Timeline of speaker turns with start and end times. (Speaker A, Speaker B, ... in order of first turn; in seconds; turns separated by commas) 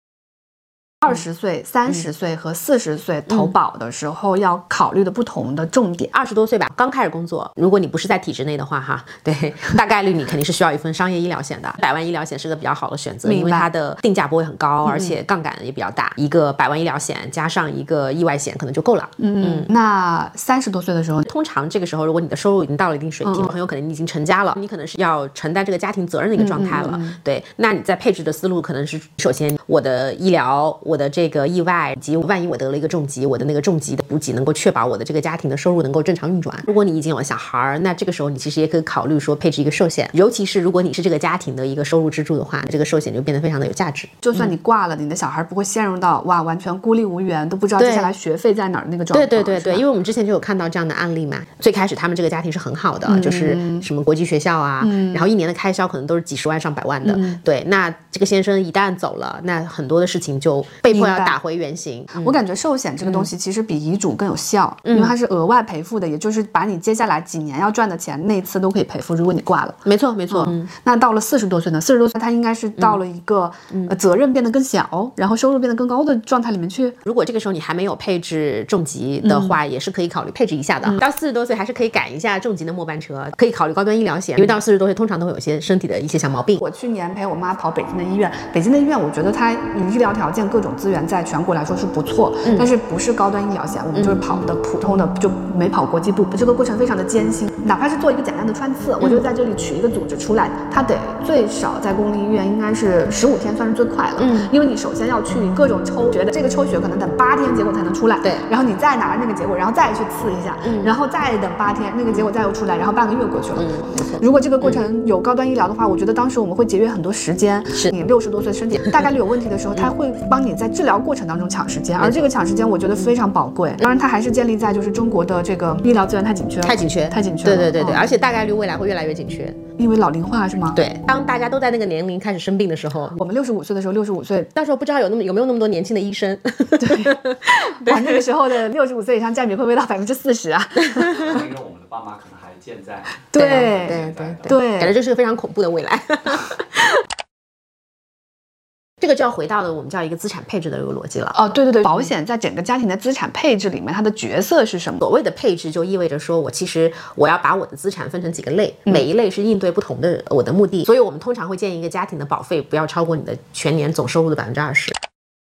Speaker A: 1.0-6.1, Speaker B: 6.1-19.7, Speaker A: 13.2-13.7, Speaker A: 14.8-15.2, Speaker A: 19.2-21.3, Speaker B: 21.2-44.5, Speaker A: 23.2-23.5, Speaker A: 26.4-27.2, Speaker A: 44.2-49.9, Speaker B: 47.8-48.1, Speaker B: 49.1-62.4, Speaker A: 53.1-53.9, Speaker A: 54.8-55.3, Speaker A: 57.0-57.4, Speaker A: 60.9-61.4, Speaker A: 62.2-77.0, Speaker B: 64.9-65.2, Speaker B: 69.8-70.7, Speaker B: 77.1-86.6, Speaker A: 79.2-79.6, Speaker A: 86.6-128.1, Speaker B: 92.4-92.7, Speaker B: 93.9-94.4, Speaker B: 104.2-104.5, Speaker B: 108.2-108.5, Speaker B: 110.6-110.9, Speaker B: 113.5-114.8, Speaker B: 122.0-122.3, Speaker B: 126.6-129.6, Speaker A: 129.8-130.8, Speaker B: 130.7-133.2, Speaker A: 133.1-134.5, Speaker B: 134.6-138.3, Speaker A: 136.8-141.4, Speaker C: 141.1-144.6, Speaker A: 143.3-144.9, Speaker B: 143.3-147.0, Speaker B: 149.0-151.4, Speaker A: 151.3-155.0, Speaker B: 155.0-165.0